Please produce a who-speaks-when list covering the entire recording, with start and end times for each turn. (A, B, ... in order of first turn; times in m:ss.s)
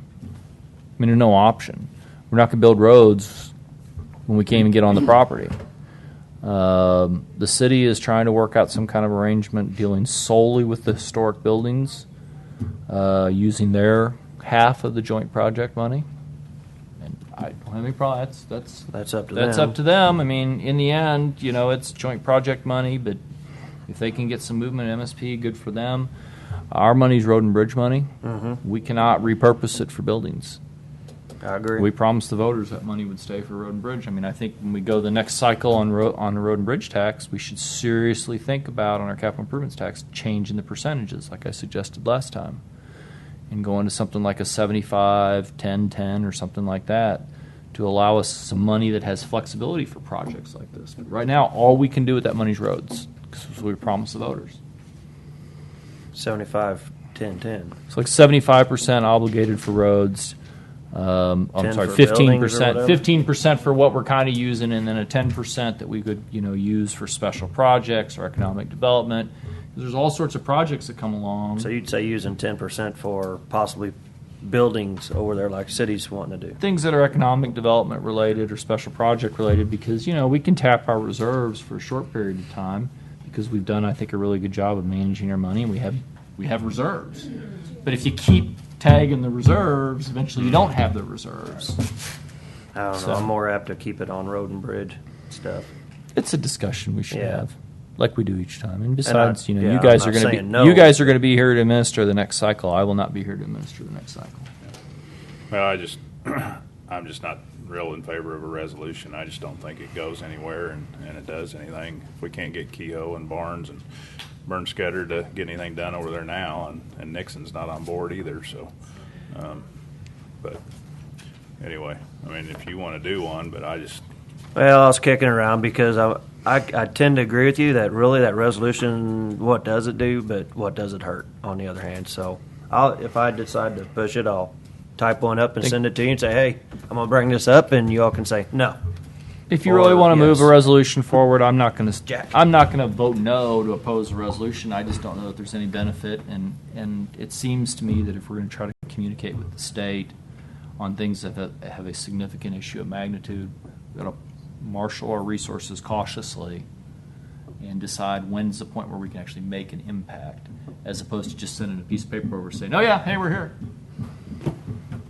0:01.0-0:03.5 A
0:04.3-0:05.5 A
0:06.4-0:12.0 A
0:12.9-0:16.0 A
0:17.0-0:23.2 A
0:18.9-0:19.8 B
0:23.9-0:26.1 A
0:26.7-0:28.1 A
0:28.2-0:28.6 B
0:28.6-0:30.6 A
0:31.4-0:31.9 B
0:31.8-0:42.6 A
0:43.5-0:54.6 A
0:56.1-0:57.8 B
0:57.9-1:00.4 A
1:00.9-1:11.7 A
1:01.6-1:03.0 B
1:11.6-1:16.6 B
1:16.6-1:27.3 A
1:27.8-1:31.8 A
1:32.7-1:35.7 B
1:33.0-1:33.3 A
1:36.1-1:44.5 A
1:37.1-1:37.4 B
1:39.0-1:41.1 B
1:45.5-1:53.8 C
1:54.4-1:58.7 C
1:59.3-1:59.6 C
2:01.6-2:04.0 C
2:04.5-2:18.8 B
2:19.5-2:30.1 A
2:19.6-2:20.5 B
2:30.8-2:36.6 A
2:37.6-2:43.5 A